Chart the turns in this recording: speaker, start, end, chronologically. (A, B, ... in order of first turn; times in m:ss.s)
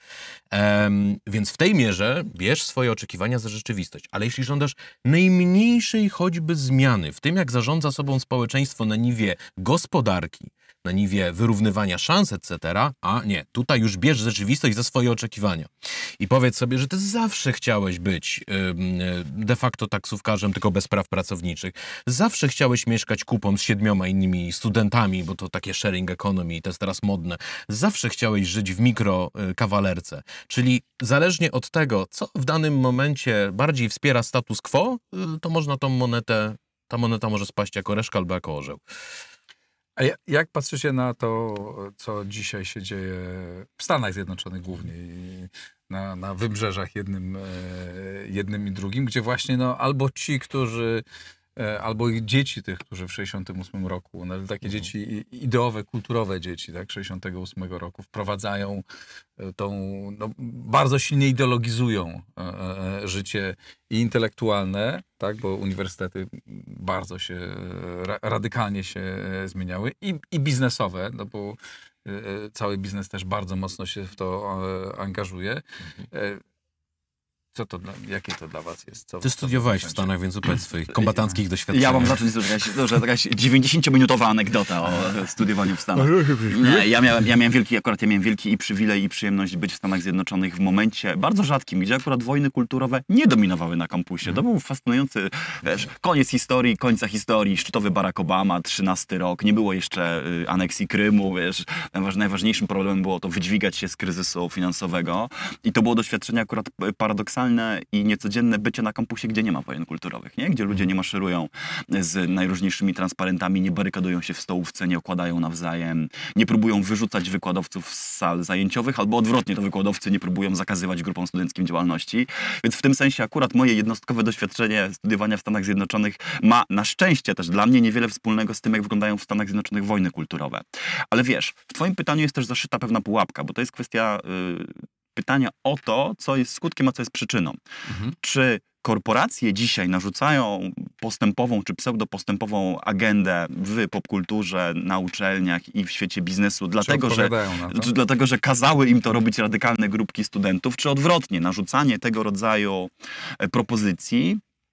0:00.5-0:38.8 A
0:40.0-0:51.0 B
0:51.6-0:58.8 B
0:59.4-1:16.4 B
1:17.5-1:20.1 B
1:19.2-1:22.2 A
1:21.7-2:17.6 C
1:26.1-1:26.8 B
2:17.9-2:18.1 B
2:18.2-2:34.4 C
2:26.8-2:27.9 B